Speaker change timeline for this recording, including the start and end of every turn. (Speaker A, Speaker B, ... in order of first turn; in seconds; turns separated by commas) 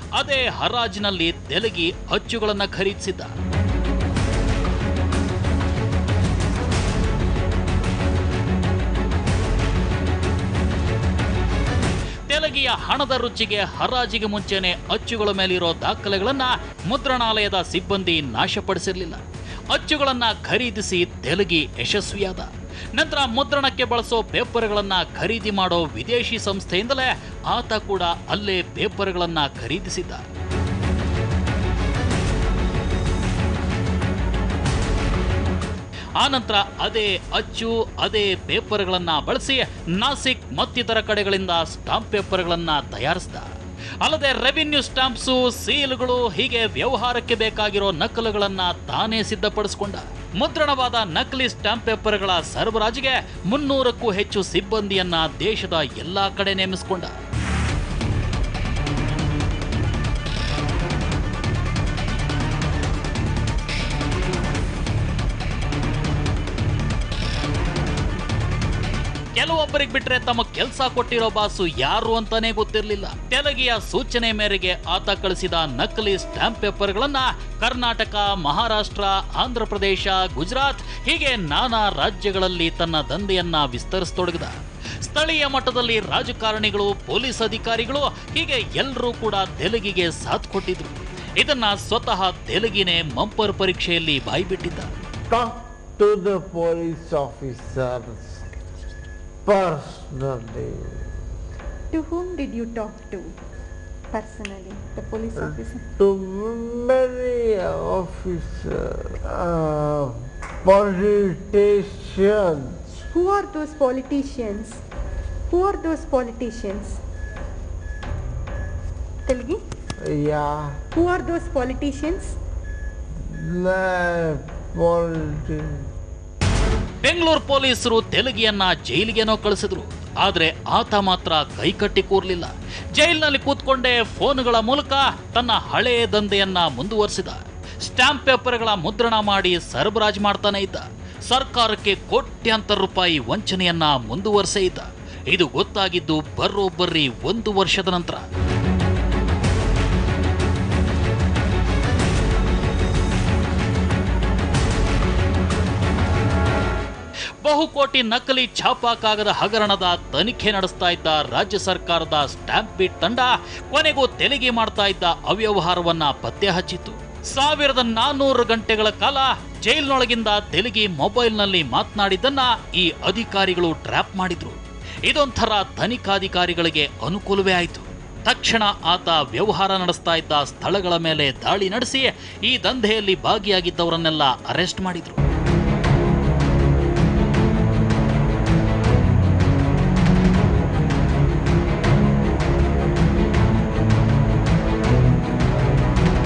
Speaker A: 0.1-3.3, Speaker A: 12.3-19.2, Speaker A: 19.7-30.2, Speaker A: 36.2-43.5, Speaker A: 44.0-57.1, Speaker A: 69.3-94.9, Speaker B: 95.3-98.3, Speaker B: 99.5-100.7, Speaker C: 101.9-103.3, Speaker C: 104.1-105.8, Speaker B: 105.4-113.0, Speaker C: 113.1-114.8, Speaker C: 115.5-117.0, Speaker C: 119.2-119.6, Speaker B: 120.0-120.7, Speaker C: 120.9-122.3, Speaker B: 123.3-125.7, Speaker A: 127.0-148.2, Speaker A: 157.4-185.2